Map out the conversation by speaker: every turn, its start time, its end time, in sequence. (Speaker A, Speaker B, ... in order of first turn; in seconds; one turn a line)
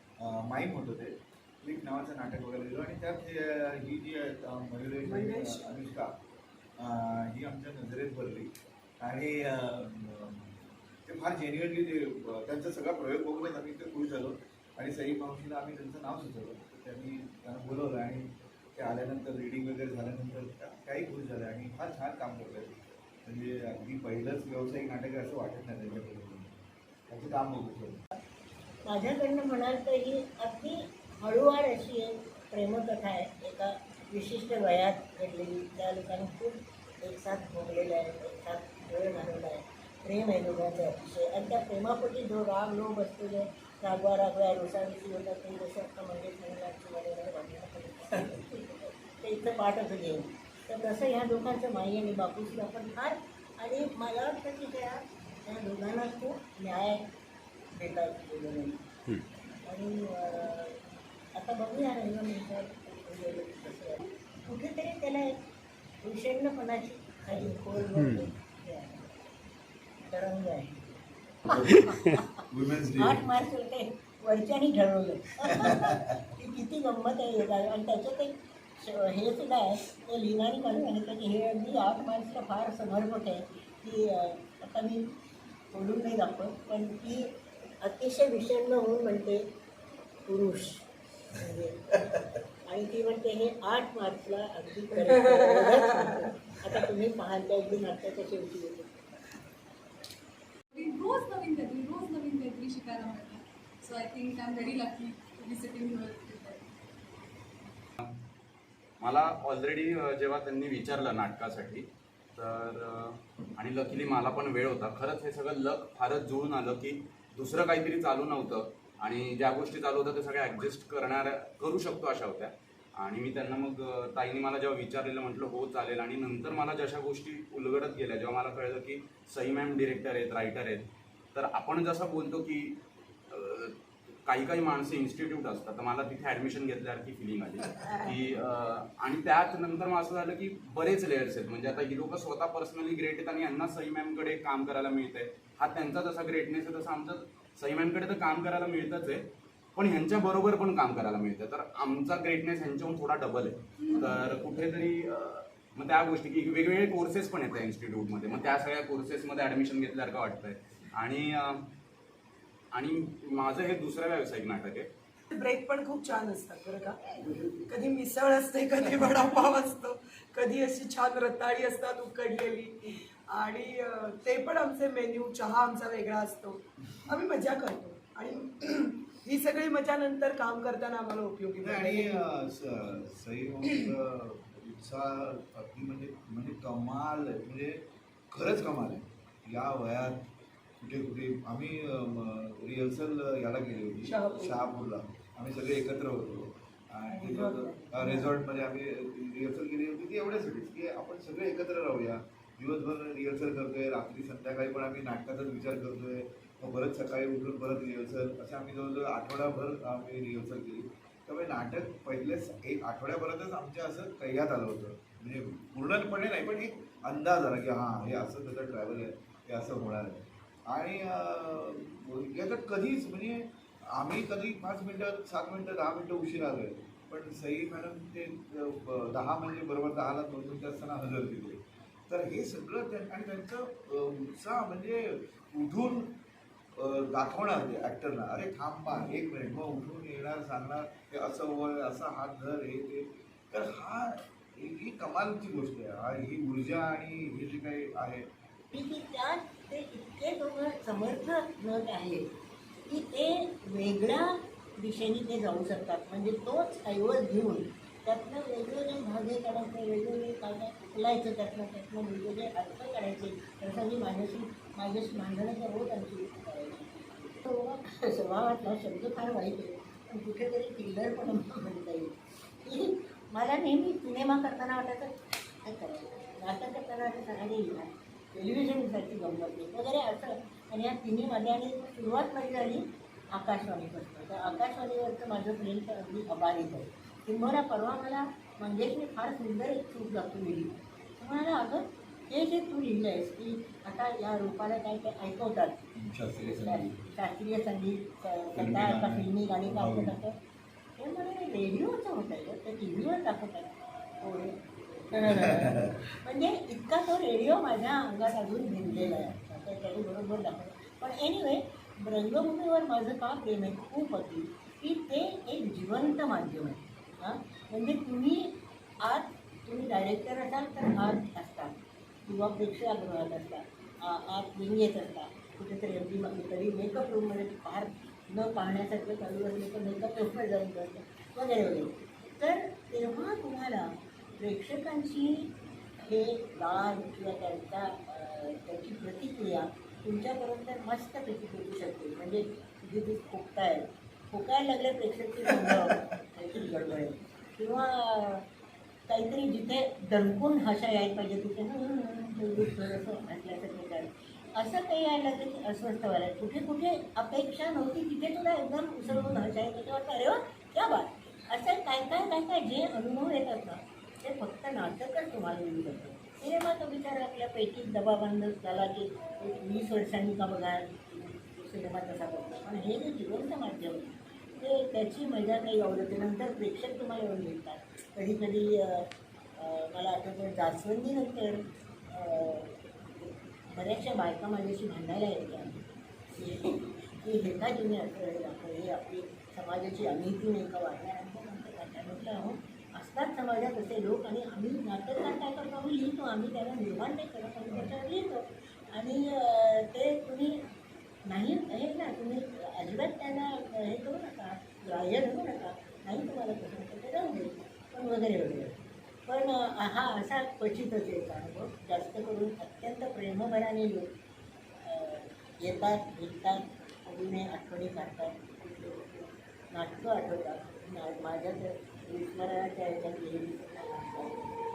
Speaker A: 0.2-6.1
Speaker B: 5.0-5.7
Speaker A: 6.8-10.5
Speaker A: 11.1-26.6
Speaker A: 27.1-28.0
Speaker C: 28.9-57.1
Speaker C: 57.7-58.8
Speaker C: 59.6-60.8
Speaker C: 61.3-65.3
Speaker C: 66.0-69.1
Speaker C: 70.0-70.9
Speaker C: 71.4-85.1
Speaker A: 72.5-73.3
Speaker A: 75.5-76.0
Speaker C: 85.7-89.4
Speaker C: 90.2-99.0
Speaker D: 100.7-106.7
Speaker E: 109.0-130.8
Speaker E: 131.3-132.8
Speaker E: 133.3-133.7
Speaker E: 134.2-149.2
Speaker E: 149.8-161.6
Speaker D: 153.9-154.1
Speaker E: 162.7-164.9
Speaker B: 165.3-182.4
Speaker A: 181.6-187.8
Speaker A: 188.3-190.2
Speaker A: 190.8-236.2
Speaker B: 194.1-194.5
Speaker B: 197.1-198.3
Speaker A: 236.8-248.3
Speaker C: 248.7-252.3
Speaker C: 252.9-300.4
Speaker A: 295.9-297.0
Speaker A: 298.6-300.2
Speaker C: 301.0-348.4
Speaker A: 305.2-306.0
Speaker C: 349.1-385.8
Speaker C: 386.3-400.6
Speaker C: 401.2-414.1
Speaker C: 414.8-424.5